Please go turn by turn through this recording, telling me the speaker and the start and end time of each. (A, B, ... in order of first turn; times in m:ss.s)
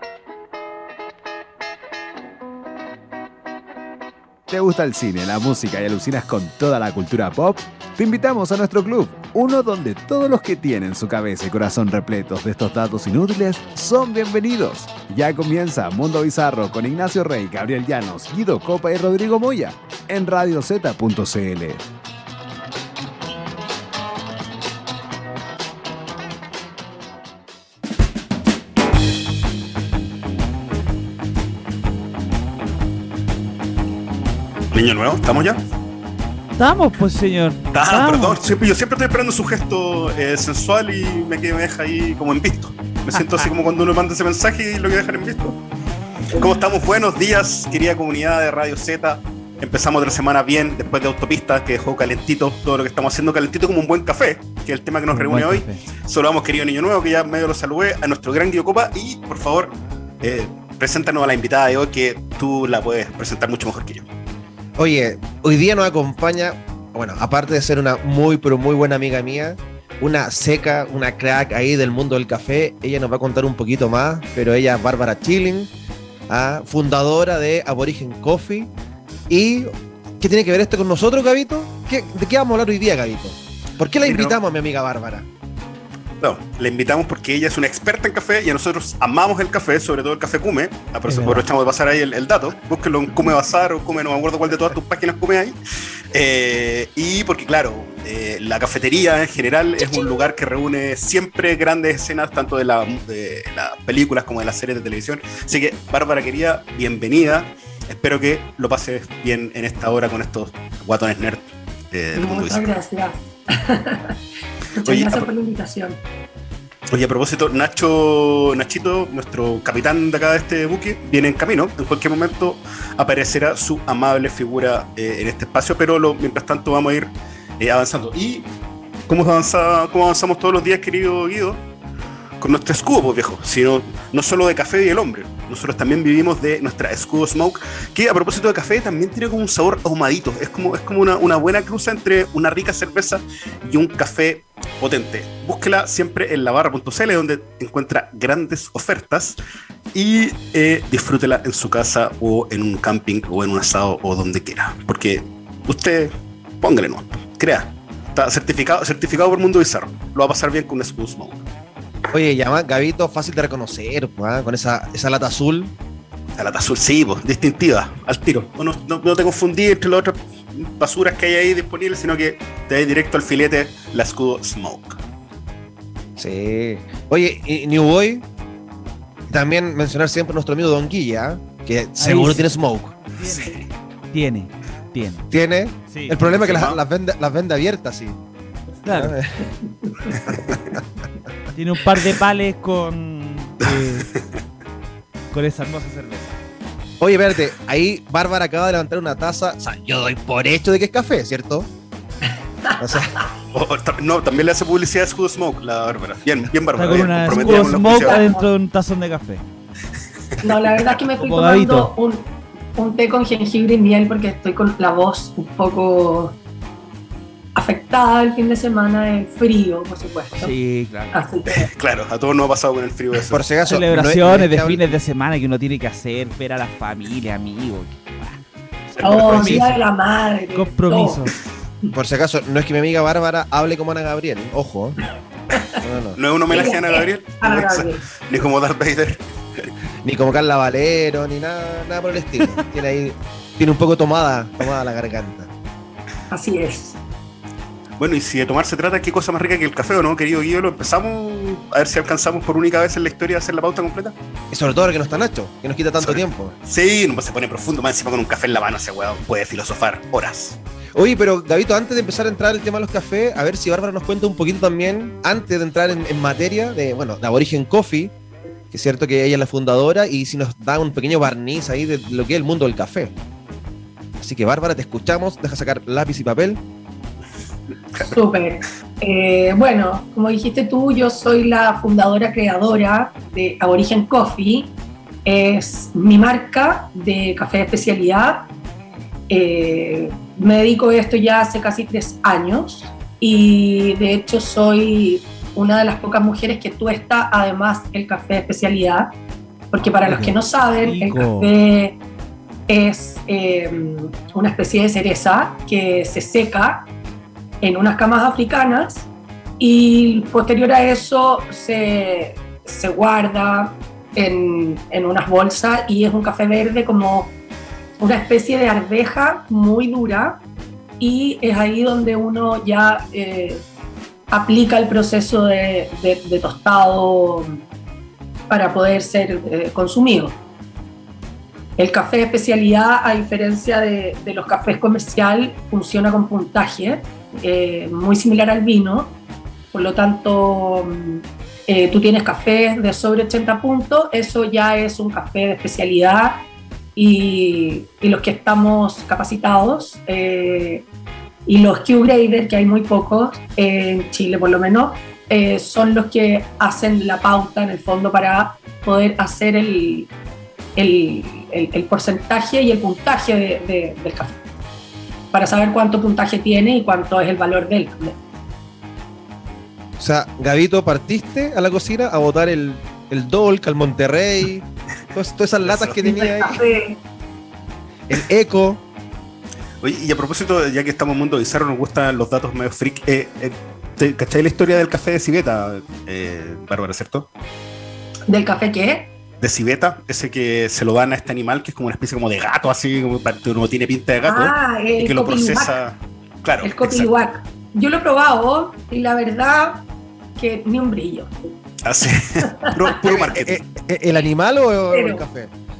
0:04.5-0:21.8 A
0:34.7-0:35.6 B
0:36.6-0:38.6 C
0:37.7-0:45.6 B
0:43.1-0:43.5 C
0:46.3-1:04.1 B
0:55.1-0:55.8 C
1:04.8-1:15.7 D
1:16.3-1:18.7 D
1:19.3-1:25.3 D
1:24.0-1:24.4 B
1:26.2-1:35.6 B
1:31.1-1:31.4 C
1:36.1-1:52.8 B
1:52.2-1:54.2 E
1:54.8-1:56.0 E
1:54.8-1:55.3 B
1:56.9-2:08.5 B
2:09.1-2:11.6 B
2:12.4-2:29.4 B
2:29.9-2:41.4 B
2:42.1-2:45.7 D
2:46.4-2:55.0 B
2:56.2-2:58.2 D
2:59.3-3:03.0 D
3:02.0-3:02.6 C
3:03.2-3:03.6 C
3:03.2-3:03.7 B
3:04.1-3:05.3 C
3:05.3-3:08.2 D
3:05.9-3:06.4 C
3:06.3-3:06.8 B
3:08.8-3:09.2 C
3:08.8-3:09.4 D
3:09.8-3:10.2 E
3:10.3-3:10.6 B
3:11.5-3:14.1 C
3:15.3-3:16.4 C
3:17.0-3:21.7 D
3:22.8-3:23.1 D
3:23.5-3:28.3 B
3:26.8-3:29.4 C
3:27.4-3:28.5 E
3:30.4-3:36.4 E
3:31.2-3:31.9 C
3:37.6-3:40.5 E
3:40.4-3:41.2 C
3:41.1-3:41.7 E
3:41.5-3:43.4 B
3:43.3-3:45.0 D
3:43.6-3:48.4 C
3:48.9-3:49.7 B
3:49.0-3:51.2 E
3:49.2-3:49.8 C
3:50.5-3:51.3 C
3:51.9-3:55.0 D
3:55.8-3:56.2 D
3:56.2-3:59.7 B
3:56.5-3:58.0 E
4:00.0-4:05.5 D
4:06.3-4:07.0 E
4:08.0-4:14.1 B
4:14.5-4:16.6 D
4:16.0-4:20.6 B
4:20.9-4:28.1 D
4:28.7-4:33.1 D
4:34.2-4:36.6 D
4:38.0-4:44.7 E
4:45.2-4:48.5 E
4:49.3-4:59.1 E
4:59.7-5:02.0 E
5:00.0-5:01.5 C
5:02.7-5:06.9 E
5:07.6-5:09.1 E
5:09.6-5:17.3 E
5:18.0-5:20.4 E
5:21.0-5:23.6 E
5:24.3-5:27.6 E
5:28.5-5:30.4 E
5:31.8-5:39.1 E
5:39.7-5:46.4 E
5:47.0-5:50.8 E
5:51.5-6:00.1 E
6:00.8-6:04.4 E
6:05.3-6:08.2 E
6:10.0-6:16.6 D
6:15.6-6:16.1 B
6:16.1-6:17.0 E
6:18.1-6:18.8 D
6:19.8-6:27.3 B
6:28.3-6:29.1 E
6:29.4-6:37.1 B
6:34.2-6:35.8 E
6:36.6-6:39.8 E
6:40.4-6:41.3 E
6:41.8-6:43.6 B
6:43.0-6:45.5 D
6:44.9-6:45.2 E